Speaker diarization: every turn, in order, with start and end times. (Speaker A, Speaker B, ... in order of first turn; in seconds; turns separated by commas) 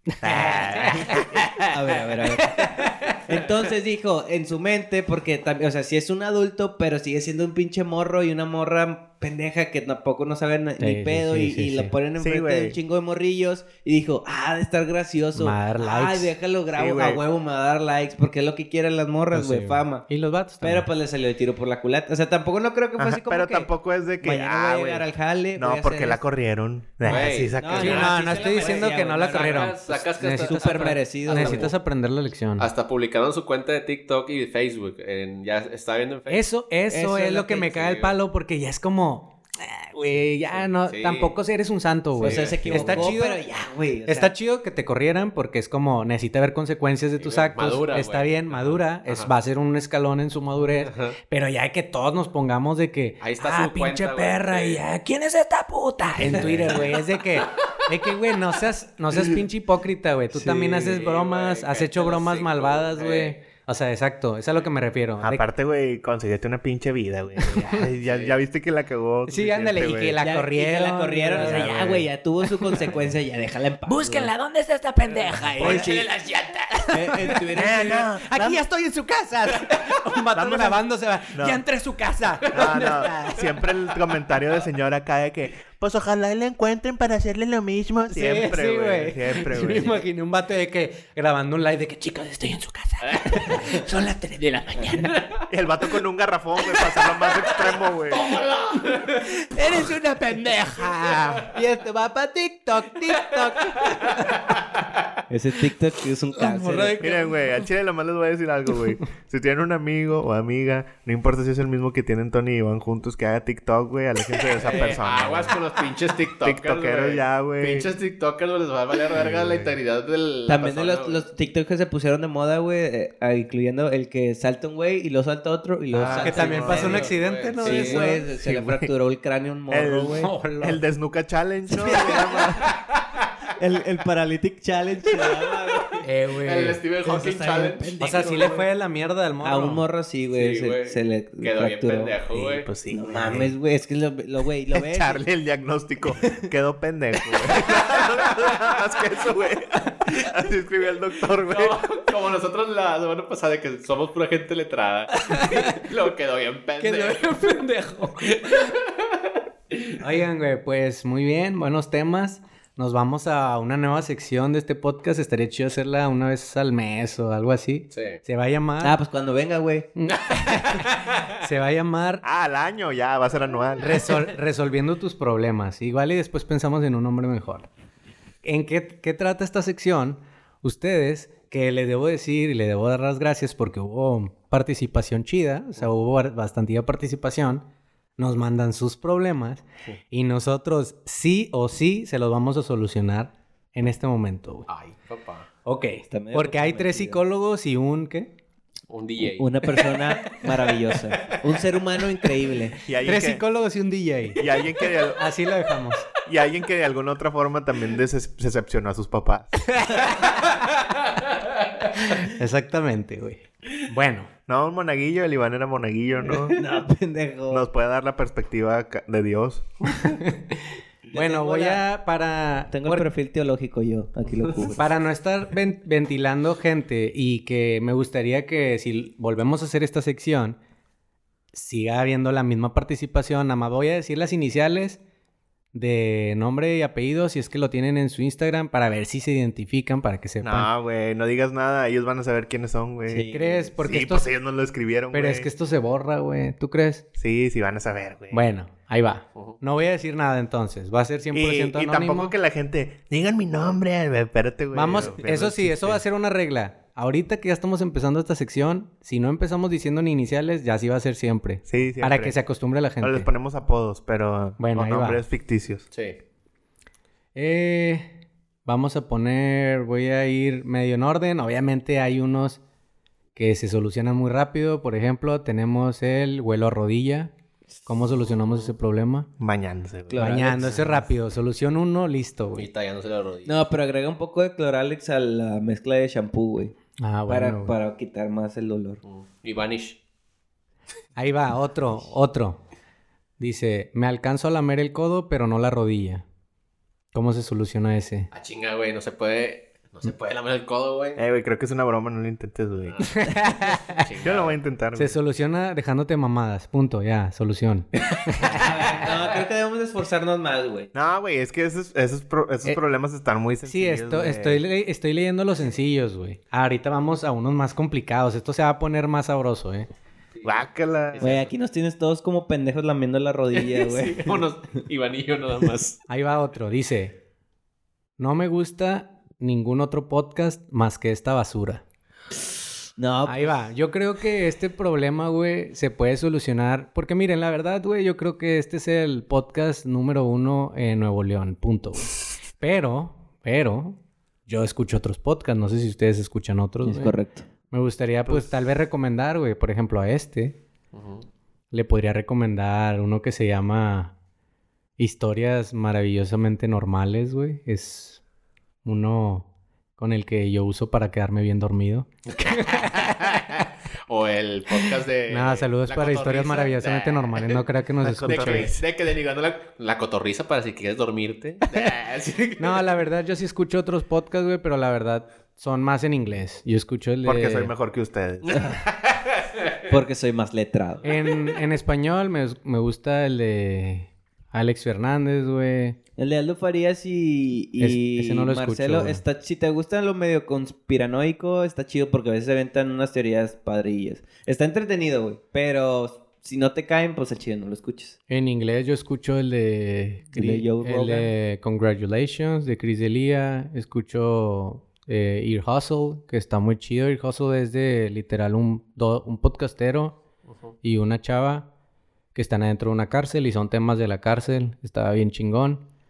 Speaker A: 0.1-3.2, Speaker B: 0.2-1.4, Speaker C: 1.6-20.1, Speaker A: 10.8-11.9, Speaker B: 12.2-12.8, Speaker A: 15.3-16.3, Speaker B: 16.7-17.2, Speaker A: 19.3-20.9, Speaker C: 20.6-23.7, Speaker B: 23.0-28.2, Speaker C: 24.2-26.2, Speaker D: 27.1-31.7, Speaker A: 27.1-32.6, Speaker C: 27.6-29.8, Speaker C: 30.3-31.7, Speaker D: 32.6-36.4, Speaker A: 36.3-43.4, Speaker C: 36.9-37.7, Speaker D: 37.6-38.1, Speaker D: 40.8-41.3, Speaker C: 42.2-44.3, Speaker D: 42.2-43.1, Speaker A: 44.0-65.4, Speaker D: 47.2-49.3, Speaker D: 50.8-51.2, Speaker D: 53.2-54.8, Speaker D: 56.2-57.6, Speaker D: 60.5-63.4, Speaker B: 65.2-70.2, Speaker A: 67.4-67.8, Speaker D: 68.0-68.4, Speaker A: 69.3-72.8, Speaker C: 70.2-74.3, Speaker B: 71.4-72.0, Speaker A: 73.8-83.7, Speaker C: 75.5-76.1, Speaker B: 75.6-75.9, Speaker C: 76.9-78.1, Speaker B: 77.5-78.6, Speaker B: 80.3-81.6, Speaker B: 82.5-90.0, Speaker A: 88.1-95.2, Speaker D: 93.1-93.5, Speaker B: 95.5-98.3, Speaker A: 96.6-97.5, Speaker A: 98.1-104.4, Speaker D: 98.5-99.2, Speaker D: 103.6-104.9, Speaker C: 105.3-107.0, Speaker A: 106.3-107.6, Speaker B: 107.0-115.6, Speaker D: 114.5-121.2, Speaker B: 116.4-117.9, Speaker B: 119.1-119.8, Speaker C: 120.5-130.3, Speaker A: 125.9-128.3, Speaker B: 126.0-127.0, Speaker D: 126.0-128.1, Speaker B: 128.3-128.9, Speaker B: 129.7-132.8, Speaker A: 130.2-130.8, Speaker C: 131.7-132.7, Speaker C: 133.6-136.0, Speaker A: 136.0-136.8, Speaker D: 136.4-138.2, Speaker C: 137.0-138.7, Speaker A: 138.0-139.8, Speaker C: 139.4-142.2, Speaker D: 140.3-142.7, Speaker B: 142.3-143.5, Speaker C: 142.9-145.2, Speaker B: 144.7-151.9, Speaker D: 151.4-157.6, Speaker A: 155.1-155.8, Speaker A: 156.8-158.7, Speaker D: 158.2-159.9, Speaker A: 160.0-169.0, Speaker D: 167.9-168.2, Speaker C: 168.8-169.9, Speaker A: 169.9-172.2, Speaker D: 170.1-171.2, Speaker B: 172.2-174.2, Speaker A: 173.8-177.7, Speaker A: 178.4-187.6, Speaker A: 188.2-194.7, Speaker D: 194.7-195.5, Speaker A: 195.7-198.3, Speaker C: 196.1-197.2, Speaker D: 198.9-199.9, Speaker C: 199.4-202.8, Speaker B: 202.8-203.4, Speaker A: 203.0-204.4, Speaker B: 204.3-205.3, Speaker A: 205.1-206.1, Speaker B: 206.2-209.8, Speaker A: 209.8-210.1, Speaker A: 212.1-214.3, Speaker B: 214.5-216.6, Speaker C: 216.3-217.7, Speaker B: 217.5-220.0, Speaker A: 220.0-223.1, Speaker C: 221.1-221.8, Speaker C: 222.7-224.9, Speaker A: 224.8-230.6, Speaker A: 231.5-235.0, Speaker A: 235.7-240.7, Speaker B: 240.4-245.5, Speaker C: 243.1-243.7, Speaker A: 243.3-244.3, Speaker A: 245.1-247.0, Speaker B: 247.2-248.4, Speaker A: 248.3-252.3, Speaker B: 251.3-256.0, Speaker A: 254.7-263.3, Speaker B: 261.7-262.4, Speaker B: 263.0-265.9, Speaker A: 264.6-265.2, Speaker D: 265.9-266.2, Speaker A: 267.3-268.1, Speaker A: 268.6-272.6, Speaker A: 273.3-277.3, Speaker A: 277.8-279.3, Speaker D: 278.3-278.6, Speaker B: 279.4-280.8, Speaker C: 280.1-281.0, Speaker A: 280.2-282.7, Speaker D: 282.5-283.6, Speaker C: 283.4-286.8, Speaker A: 287.0-287.7, Speaker C: 287.3-289.0, Speaker D: 289.0-290.0, Speaker A: 291.2-292.6, Speaker A: 293.4-296.2, Speaker A: 297.1-298.3, Speaker D: 298.3-301.2, Speaker B: 301.1-303.1, Speaker A: 303.1-304.0, Speaker D: 303.6-304.6, Speaker B: 304.2-305.2, Speaker A: 304.9-308.6, Speaker D: 308.3-309.4, Speaker C: 308.5-310.9, Speaker B: 310.9-314.6, Speaker A: 313.6-319.9, Speaker D: 320.3-321.5, Speaker B: 320.4-321.3, Speaker C: 321.2-324.4, Speaker D: 323.5-326.0, Speaker A: 326.1-327.1, Speaker A: 328.2-331.8, Speaker C: 333.0-333.6, Speaker A: 333.2-347.1, Speaker C: 346.8-347.4, Speaker A: 347.7-350.6, Speaker D: 350.9-351.2, Speaker A: 351.7-354.1, Speaker A: 355.0-358.2, Speaker A: 358.8-363.6, Speaker D: 362.3-367.6, Speaker A: 365.3-368.7, Speaker B: 368.0-368.9, Speaker D: 368.2-372.8, Speaker A: 372.6-377.7, Speaker B: 377.2-378.7, Speaker D: 378.5-379.4, Speaker C: 378.5-378.8, Speaker C: 379.9-381.1, Speaker A: 381.0-386.0, Speaker C: 386.2-398.2, Speaker A: 387.8-389.2, Speaker A: 398.3-410.2, Speaker C: 400.3-401.3, Speaker D: 410.5-410.7, Speaker A: 410.8-411.7, Speaker A: 412.3-415.8